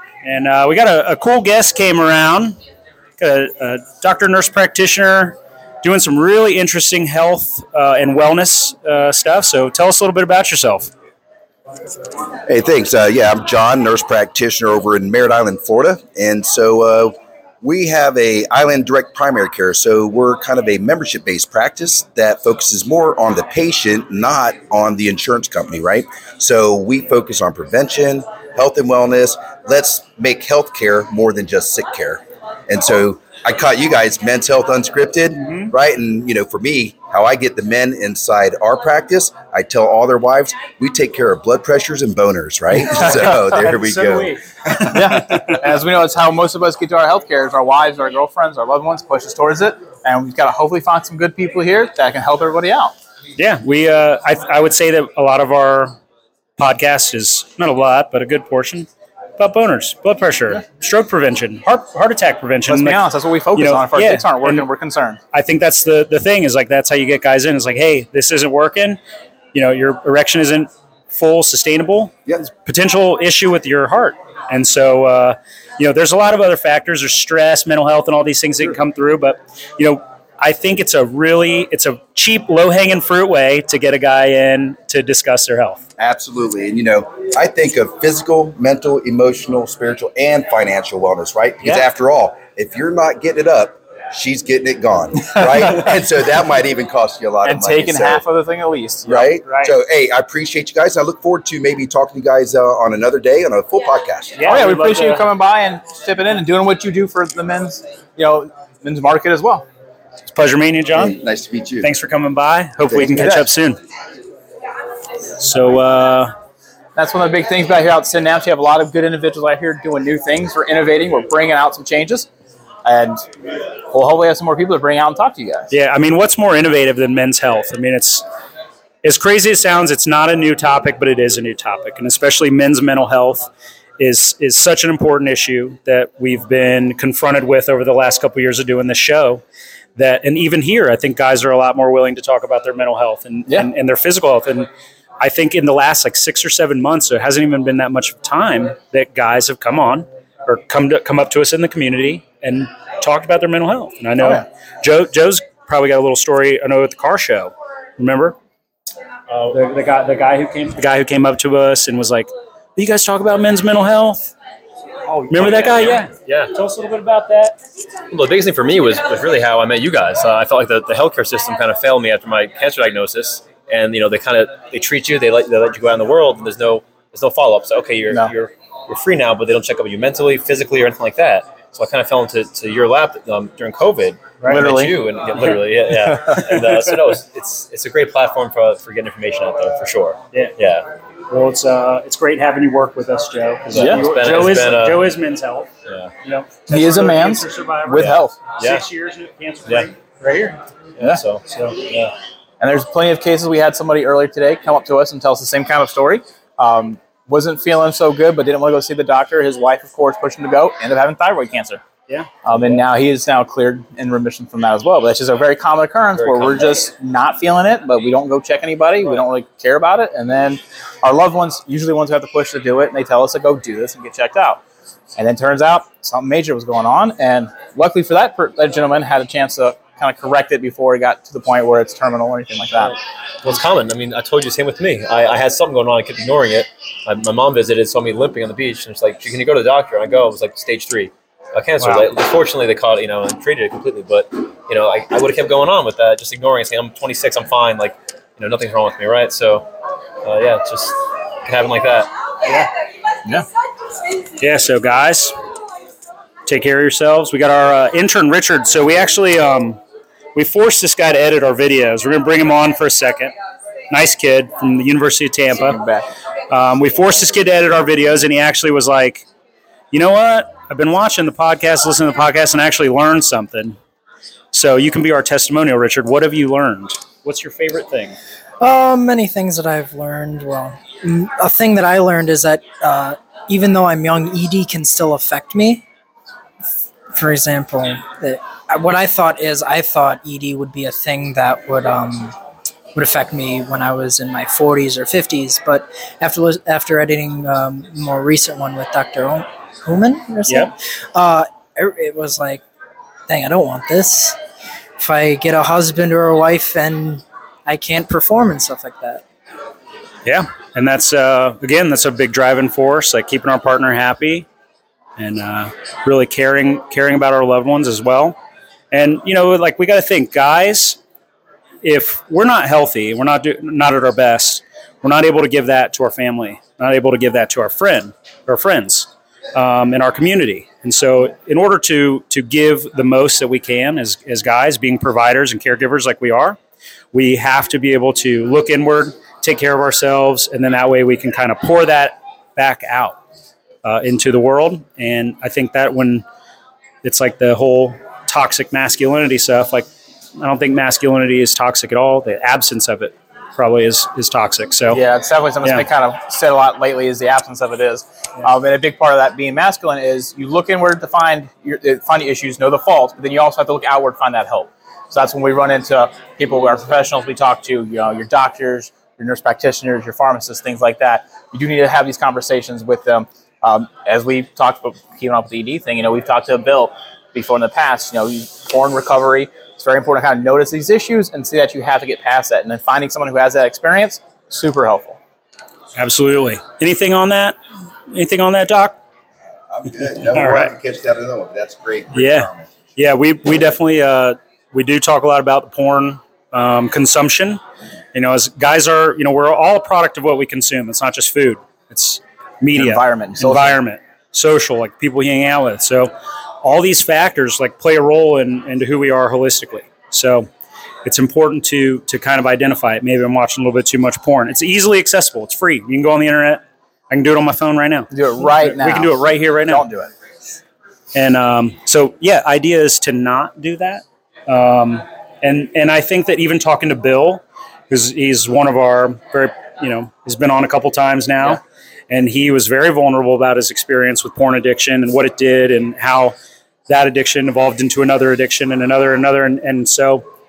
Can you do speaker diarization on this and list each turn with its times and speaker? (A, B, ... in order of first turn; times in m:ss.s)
0:00.2-0:02.6 A
0:03.2-0:10.9 A
0:12.4-0:44.9 B
0:35.4-0:35.7 A
0:43.0-0:45.4 A
0:44.9-0:52.9 C
0:53.4-0:56.0 A
0:56.6-1:04.7 A
1:02.7-1:05.2 C
1:05.3-1:09.0 A
1:09.5-1:25.8 A
1:26.0-1:38.2 B
1:37.4-1:39.3 C
1:39.0-1:44.5 B
1:39.4-1:39.7 A
1:44.4-1:45.2 A
1:44.4-1:49.7 C
1:50.3-1:51.2 A
1:50.9-1:51.9 B
1:51.8-1:53.8 A
1:52.9-1:53.4 B
1:53.2-1:53.4 C
1:55.4-1:56.3 A
1:57.0-2:02.3 C
2:02.8-2:03.2 C
2:03.9-2:05.7 C
2:05.7-2:08.2 A
2:09.0-2:19.4 A
2:20.0-2:24.7 A
2:25.2-2:38.4 A
2:39.3-2:39.6 D
2:39.5-2:44.3 A
2:45.1-2:46.5 D
2:45.3-2:47.6 A
2:48.1-3:10.9 D
3:04.5-3:05.1 C
3:11.3-3:15.7 A
3:13.7-3:15.1 D
3:13.7-3:14.0 C
3:15.9-3:16.1 D
3:16.2-3:20.6 A
3:16.7-3:18.4 C
3:18.0-3:18.8 D
3:21.0-3:22.1 D
3:21.5-3:21.8 A
3:22.6-3:31.8 C
3:32.4-3:44.6 C
3:36.2-3:36.8 D
3:45.2-3:53.0 C
3:53.4-4:09.7 D
4:01.8-4:02.1 A
4:10.2-4:12.1 D
4:14.4-4:15.3 A
4:16.4-4:19.8 A
4:20.3-4:23.3 A
4:23.9-4:25.8 A
4:25.7-4:26.1 C
4:26.5-4:29.2 A
4:29.9-4:33.8 A
4:34.5-4:38.2 A
4:38.6-4:45.8 E
4:47.1-4:52.3 E
4:52.9-5:02.6 E
5:00.5-5:00.7 A
5:03.3-5:04.4 E
5:05.0-5:09.2 E
5:10.2-5:14.4 A
5:15.2-5:18.4 A
5:18.9-5:21.0 A
5:21.8-5:36.6 A
5:37.1-5:43.2 A
5:43.8-5:46.2 A
5:47.0-5:55.0 A
5:54.9-6:25.2 C
6:26.0-6:27.6 A
6:28.1-6:29.0 A
6:29.7-6:32.7 B
6:30.3-6:30.7 A
6:32.1-6:37.6 A
6:38.1-6:50.5 A
6:42.8-6:43.8 C
6:51.0-6:59.8 A
6:58.1-7:00.1 C
7:01.1-7:16.3 A
7:16.9-7:20.2 A